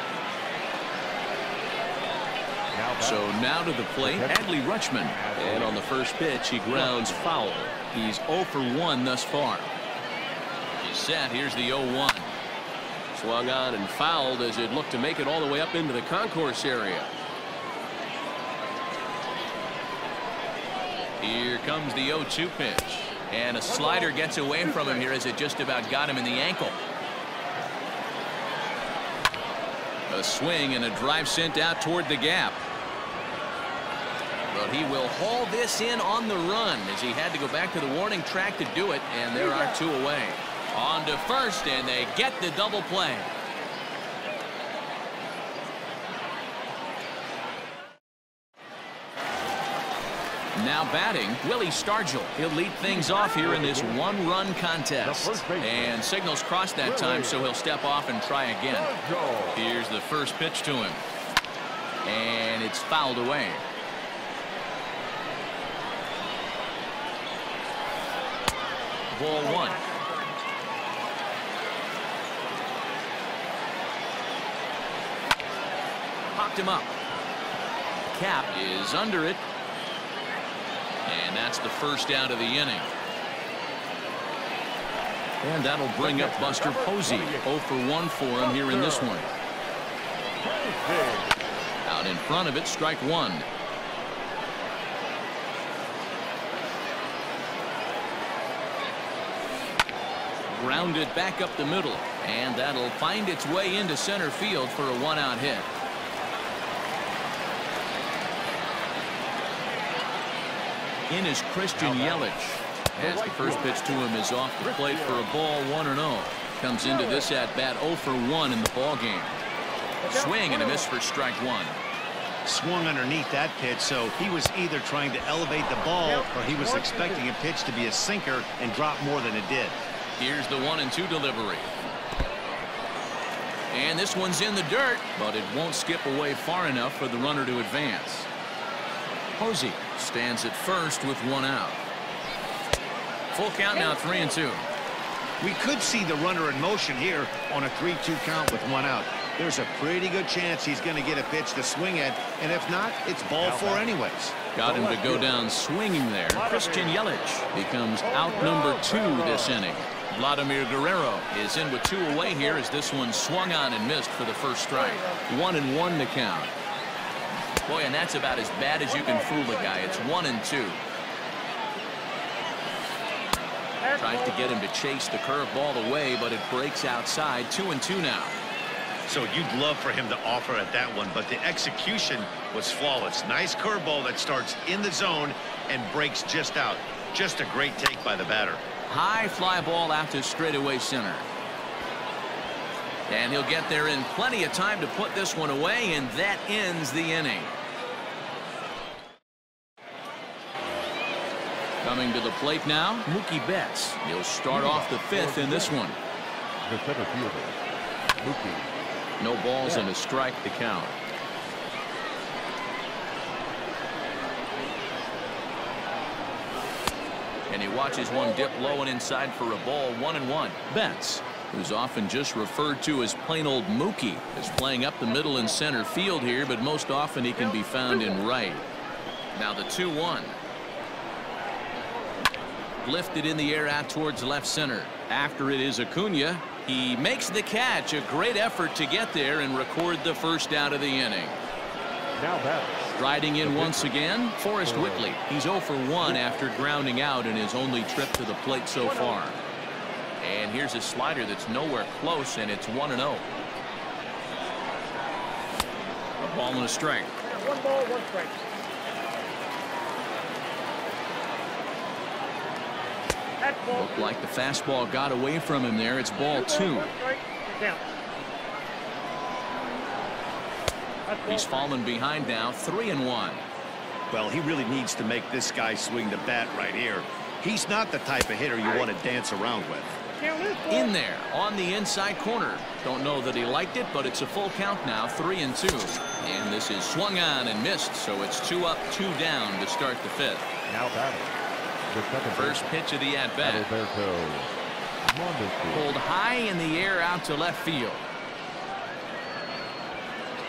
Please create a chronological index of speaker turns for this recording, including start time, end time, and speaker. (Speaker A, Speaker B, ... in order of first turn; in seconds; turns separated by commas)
Speaker A: 2.7-3.3, Speaker B: 3.0-9.7, Speaker A: 4.0-4.5, Speaker A: 5.0-5.9, Speaker A: 6.7-7.3, Speaker B: 10.8-12.3, Speaker B: 13.1-17.1, Speaker B: 21.2-26.8, Speaker C: 23.7-24.1, Speaker C: 24.7-25.0, Speaker B: 30.1-32.6, Speaker B: 34.5-43.3, Speaker C: 39.4-39.7, Speaker B: 50.5-58.9, Speaker A: 52.8-54.1, Speaker A: 55.0-56.0, Speaker A: 56.8-57.5, Speaker A: 58.7-59.6, Speaker B: 59.5-61.0, Speaker B: 62.0-63.6, Speaker B: 69.1-69.8, Speaker C: 69.4-70.4, Speaker B: 76.3-76.9, Speaker B: 78.1-79.4, Speaker B: 81.0-82.9, Speaker B: 85.4-89.3, Speaker A: 86.0-87.5, Speaker A: 88.4-89.2, Speaker A: 90.4-91.3, Speaker B: 91.8-93.5, Speaker B: 100.5-105.7, Speaker B: 111.1-119.4, Speaker A: 111.7-112.3, Speaker A: 112.9-115.3, Speaker C: 116.8-117.3, Speaker C: 120.0-120.9, Speaker B: 120.0-121.8, Speaker D: 122.4-129.8, Speaker C: 126.0-127.2, Speaker B: 130.2-131.7, Speaker B: 133.7-138.3, Speaker B: 139.4-141.8, Speaker B: 143.3-144.6, Speaker C: 143.8-144.3, Speaker D: 145.4-154.4, Speaker A: 153.4-153.9, Speaker B: 154.5-166.5, Speaker A: 154.6-155.5, Speaker C: 156.3-156.9, Speaker A: 158.0-159.6, Speaker C: 162.1-162.6, Speaker C: 164.7-165.2, Speaker B: 167.6-170.8, Speaker C: 168.9-170.1, Speaker C: 173.8-174.5, Speaker B: 173.9-178.4, Speaker D: 179.1-188.6, Speaker B: 188.9-191.3, Speaker B: 193.1-197.5, Speaker B: 201.8-206.0, Speaker A: 204.5-205.9, Speaker A: 206.6-207.6, Speaker A: 208.2-208.7, Speaker B: 209.2-210.9, Speaker B: 217.5-228.7, Speaker C: 217.9-218.8, Speaker C: 227.4-228.2, Speaker B: 229.3-230.4, Speaker B: 232.8-241.3, Speaker A: 242.2-243.9, Speaker B: 243.0-249.4, Speaker A: 244.6-245.1, Speaker C: 248.7-249.2, Speaker B: 250.2-253.2, Speaker B: 256.2-257.1, Speaker C: 257.2-258.4, Speaker C: 263.4-264.1, Speaker B: 263.7-266.9, Speaker C: 266.3-267.9, Speaker C: 271.1-271.7, Speaker B: 271.2-273.4, Speaker D: 274.1-280.0, Speaker C: 280.2-280.9, Speaker B: 280.7-290.5, Speaker A: 290.7-291.3, Speaker A: 291.9-292.7, Speaker B: 292.3-293.7, Speaker A: 293.4-294.5, Speaker A: 295.0-296.0, Speaker B: 295.7-298.0